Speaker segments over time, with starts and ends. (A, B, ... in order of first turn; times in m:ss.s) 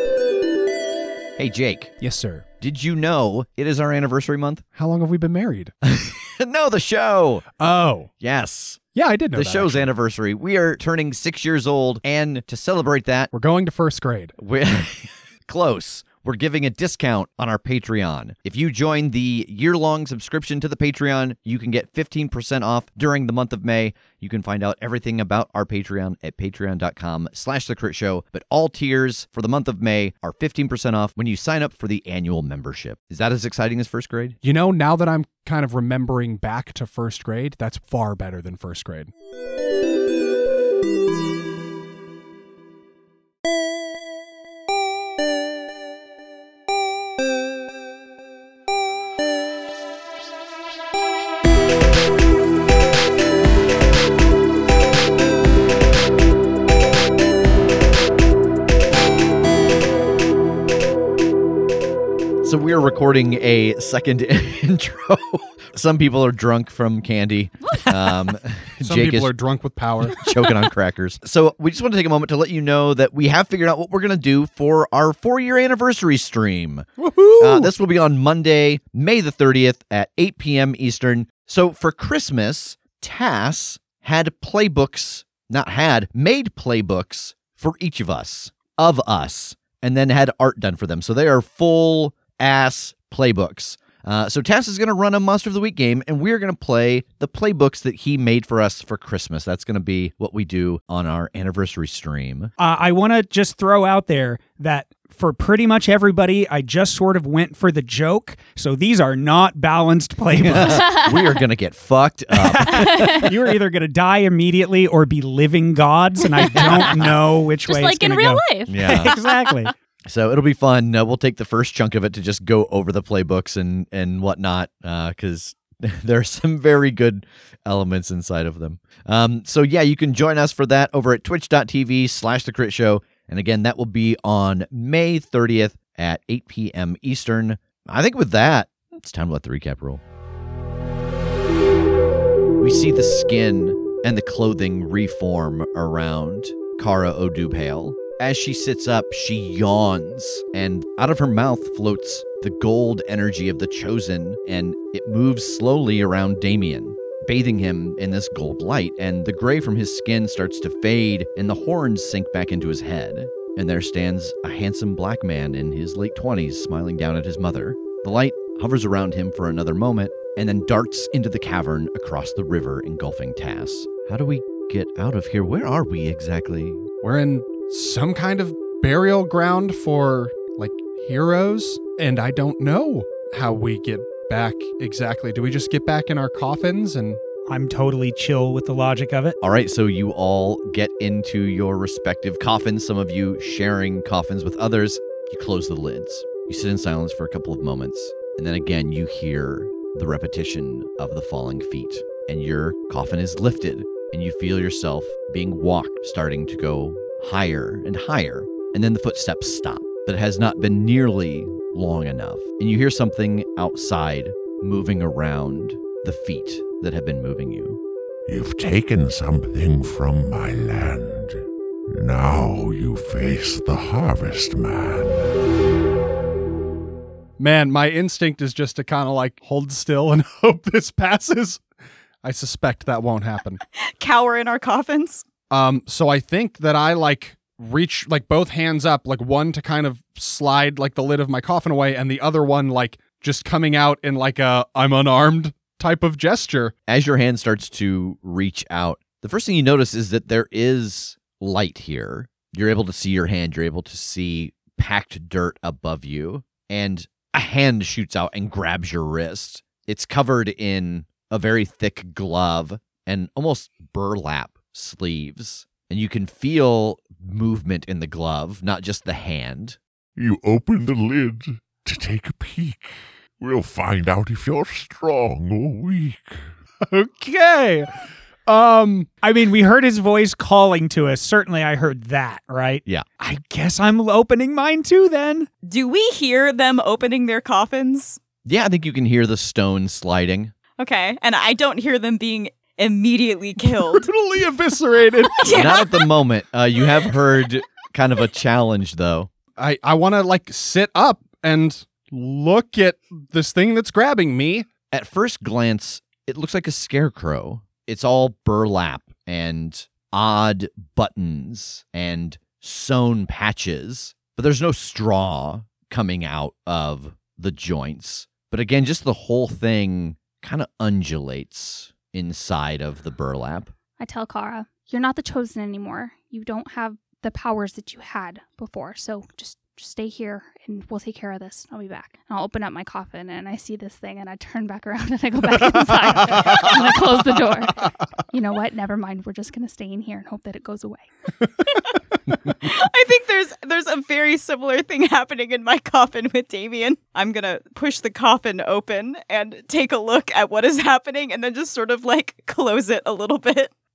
0:01.4-0:01.9 A
0:02.0-0:02.4 B
0:02.6-0:04.6 A
0:04.7-0:05.7 B
0:05.8-0:07.5 A
0:07.6-0:08.1 B
0:08.2-0:08.8 A
0:08.9-0:09.9 B
0:09.3-0:13.3 A
0:13.3-0:14.3 B
0:14.4-0:34.4 A
0:34.4-0:39.1 B
1:02.4-1:09.3 A
1:08.8-1:10.3 B
1:10.1-1:42.5 A
1:17.0-1:17.7 B
1:42.6-1:50.8 C
1:50.4-1:53.3 A
1:50.6-1:51.1 D
1:52.3-1:59.7 C
1:52.8-1:53.3 D
1:56.3-1:57.1 D
1:56.5-1:57.1 A
1:57.6-1:59.5 D
1:58.7-1:59.1 A
2:00.0-2:20.0 A
2:22.6-2:56.9 A
2:57.0-3:07.2 B
3:07.5-3:09.4 C
3:09.4-3:37.8 A
3:38.3-3:45.3 E
3:47.4-3:51.6 B
3:52.2-3:53.6 B
3:53.8-3:55.2 F
3:55.5-4:06.7 B
4:06.9-4:29.8 A
4:30.2-4:36.5 E
4:36.9-4:37.9 B
4:38.4-4:39.1 B
4:39.2-4:45.5 C
4:45.6-4:48.2 F
4:48.4-4:50.5 A
4:50.8-4:54.1 F
4:53.8-4:55.5 B
4:55.3-4:56.0 F
4:55.5-4:59.3 A
4:59.6-5:04.7 B
5:04.9-5:23.7 A
5:24.0-5:41.1 D
5:36.0-5:36.8 B
5:42.6-5:53.7 F